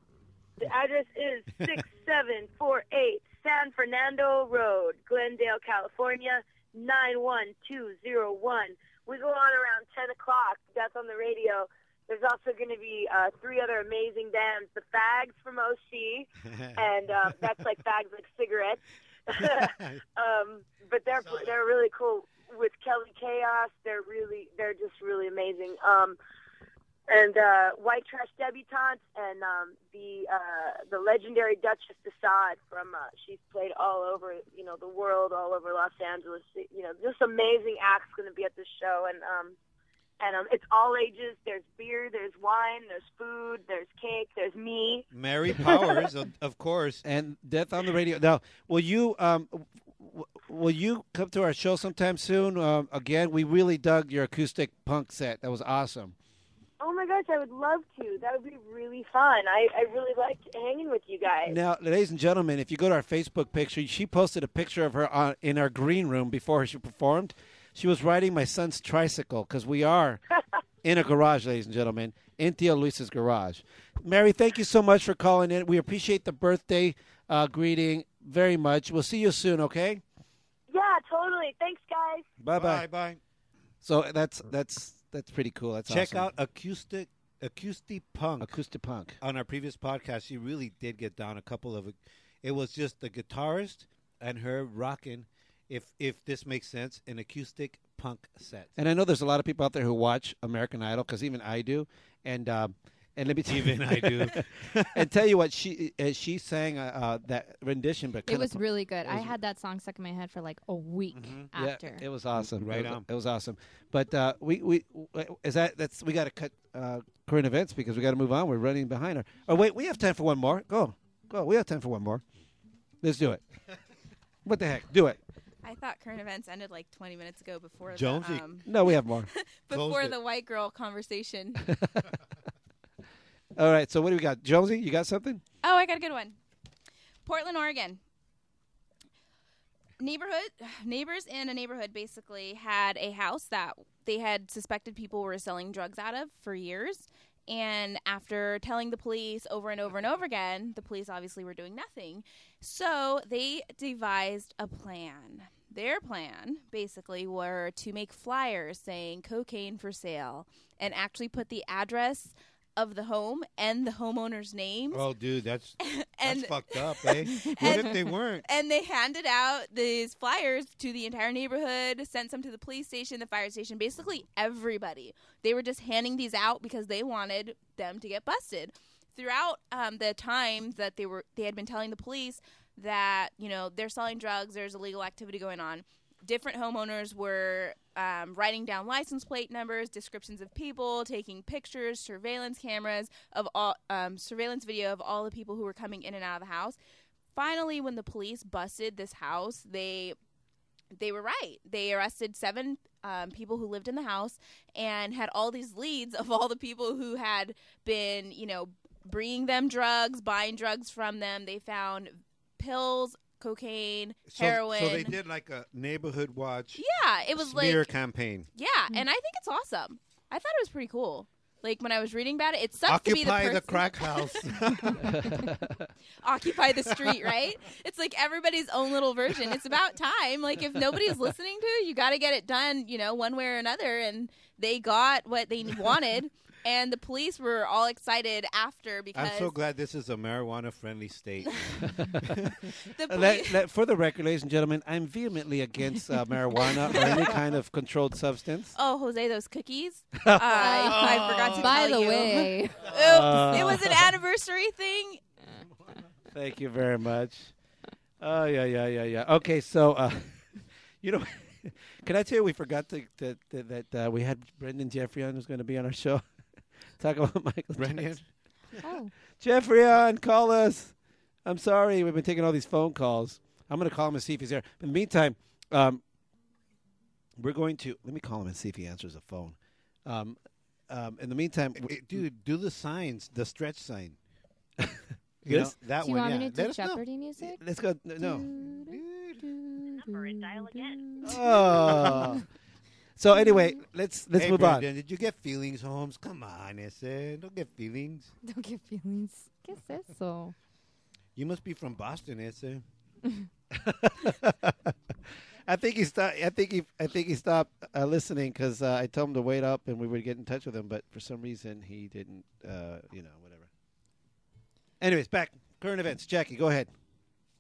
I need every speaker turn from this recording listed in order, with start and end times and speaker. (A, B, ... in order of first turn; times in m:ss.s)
0:00.6-0:26.2 A
0:16.5-0:16.8 B
0:19.5-0:20.0 B
0:27.1-0:39.6 A
0:40.2-0:45.0 A
0:45.1-0:47.0 B
0:45.6-0:46.0 A
0:47.0-0:56.2 C
0:56.8-1:01.6 A
1:01.5-1:10.2 C
1:10.8-1:20.0 C
1:20.7-1:22.2 A
1:22.4-1:22.8 C
1:22.5-1:23.2 B
1:23.8-1:26.3 C
1:25.9-1:28.5 B
1:28.4-1:29.2 C
1:29.2-1:38.7 B
1:38.8-1:49.3 C
1:43.5-1:45.1 B
1:48.3-1:52.0 D
1:51.2-1:51.5 B
1:51.5-2:02.2 C
1:52.4-1:53.0 B
2:03.0-2:03.4 C
2:04.4-2:05.2 C
2:05.6-2:08.7 E
2:07.9-2:08.5 B
2:08.6-2:09.3 C
2:09.3-2:11.6 E
2:09.7-2:10.2 B
2:11.6-2:12.2 C
2:13.6-2:15.4 C
2:15.6-2:16.4 E
2:17.2-2:18.0 E
2:20.0-2:45.0 E
2:44.9-2:48.5 B
2:45.8-3:16.8 E
3:17.3-3:20.2 E
3:20.9-3:35.1 E
3:34.3-3:36.8 B
3:36.8-3:37.9 E
3:37.4-3:38.5 B
3:38.6-3:44.4 E
3:42.9-3:45.3 B
3:45.1-3:45.7 C
3:46.2-3:59.6 E
3:59.2-4:01.7 B
4:01.8-4:02.4 C
4:02.2-4:02.5 B
4:02.9-4:03.6 E
4:03.1-4:08.7 C
4:08.7-4:15.2 E
4:10.2-4:11.4 C
4:10.6-4:12.9 D
4:11.0-4:11.4 B
4:13.0-4:14.1 C
4:16.3-4:17.5 C
4:18.2-4:20.4 C
4:21.0-4:26.2 C
4:27.0-4:28.2 C
4:27.8-4:28.2 B
4:28.8-4:29.1 D
4:29.4-4:30.9 C
4:31.4-4:36.0 C
4:37.4-4:40.4 C
4:40.9-4:42.0 C
4:41.8-4:44.2 B
4:44.8-4:45.8 C
4:45.4-4:47.0 B
4:46.0-4:47.6 D
4:47.6-4:48.5 C
4:48.2-4:52.4 D
4:48.6-4:49.5 B
4:51.2-4:52.4 B
4:51.2-4:52.4 C
4:53.2-4:54.9 C
4:54.4-4:58.3 B
4:58.4-5:00.6 D
5:01.4-5:02.8 B
5:03.7-5:04.9 C
5:05.7-5:13.7 C
5:15.0-5:16.9 C